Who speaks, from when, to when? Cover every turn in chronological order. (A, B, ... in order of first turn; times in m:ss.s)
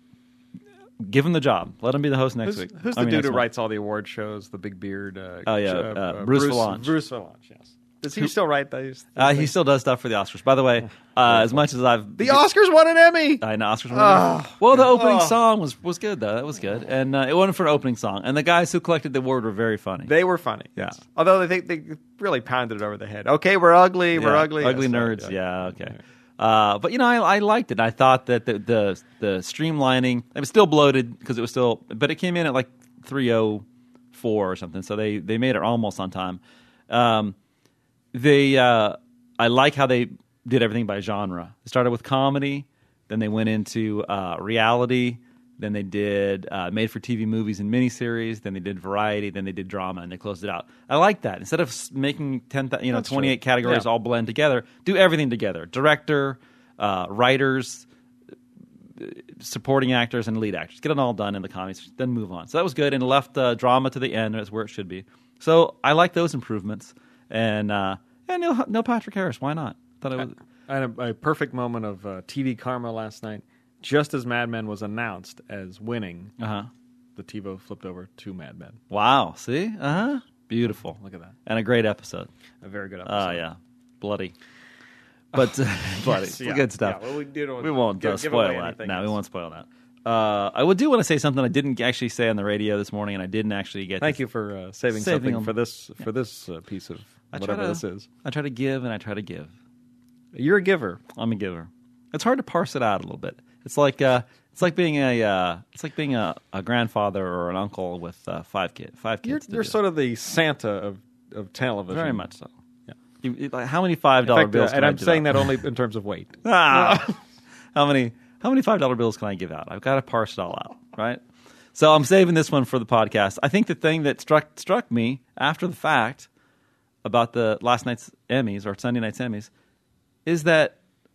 0:01.0-0:03.5 A
0:02.4-0:09.5 B
0:05.5-0:06.9 A
0:09.2-0:12.4 A
0:11.3-0:11.6 B
0:12.2-0:15.4 B
0:13.4-0:20.1 A
0:20.0-0:26.0 B
0:24.1-0:37.4 A
0:38.1-0:57.9 A
0:52.9-0:53.9 B
0:59.0-1:10.4 A
1:10.2-1:16.3 B
1:16.4-1:16.7 A
1:17.2-1:18.8 B
1:18.9-1:22.3 A
1:21.0-1:21.3 B
1:22.6-1:23.4 B
1:23.0-1:24.4 A
1:25.3-1:27.1 A
1:26.0-1:29.2 B
1:27.6-1:34.2 A
1:34.0-1:38.1 B
1:34.9-1:35.5 A
1:37.3-1:39.5 A
1:40.3-1:41.0 B
1:41.1-1:49.8 A
1:49.2-1:52.3 B
1:51.9-1:52.5 A
1:53.2-1:55.4 A
1:54.2-1:57.2 B
1:56.4-1:57.2 A
1:57.8-2:01.2 A
2:01.8-2:06.3 A
2:07.0-2:09.5 A
2:10.3-2:10.8 A